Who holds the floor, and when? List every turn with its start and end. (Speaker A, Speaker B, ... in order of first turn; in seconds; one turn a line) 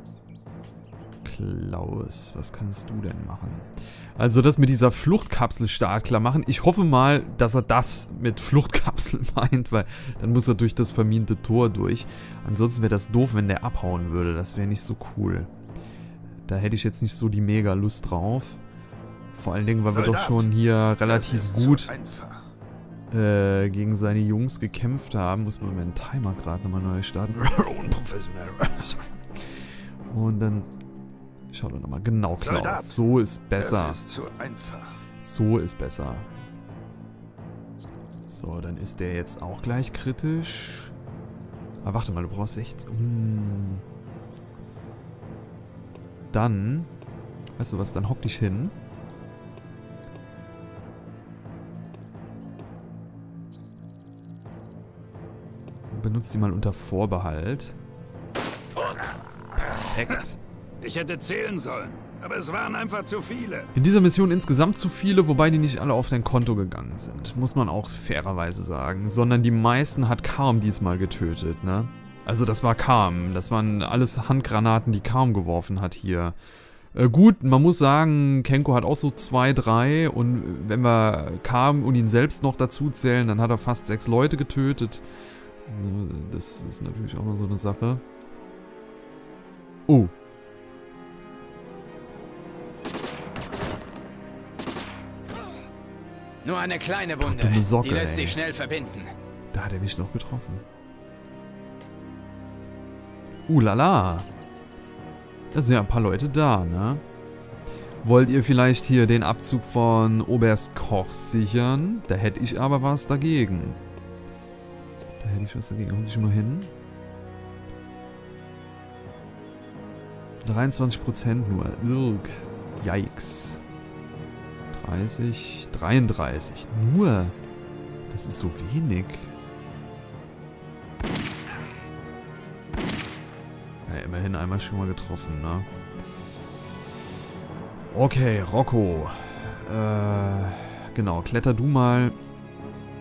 Speaker A: 1.2-15.5
Speaker A: 16.5-18.6
Speaker A: 19.3-21.9
Speaker B: 19.9-20.5
Speaker B: 21.0-22.5
Speaker A: 23.1-29.5
Speaker A: 30.1-30.7
Speaker A: 31.5-34.0
Speaker B: 32.4-33.0
Speaker B: 33.6-35.0
Speaker A: 35.2-36.3
Speaker A: 38.3-40.9
Speaker A: 41.8-43.8
Speaker A: 46.3-46.9
Speaker A: 47.6-48.8
Speaker A: 55.9-57.8
Speaker B: 58.8-59.1
Speaker A: 59.9-60.4
Speaker B: 60.8-63.7
Speaker A: 63.7-76.4
Speaker A: 76.9-85.0
Speaker A: 85.7-88.0
Speaker A: 89.9-90.1
Speaker C: 96.4-99.1
Speaker A: 97.2-98.4
Speaker A: 99.5-100.6
Speaker A: 103.5-104.3
Speaker A: 105.5-107.0
Speaker A: 108.0-113.8
Speaker A: 115.2-116.7
Speaker A: 120.4-123.6
Speaker A: 124.7-127.4
Speaker A: 128.1-129.3
Speaker A: 133.9-135.7
Speaker A: 137.9-142.2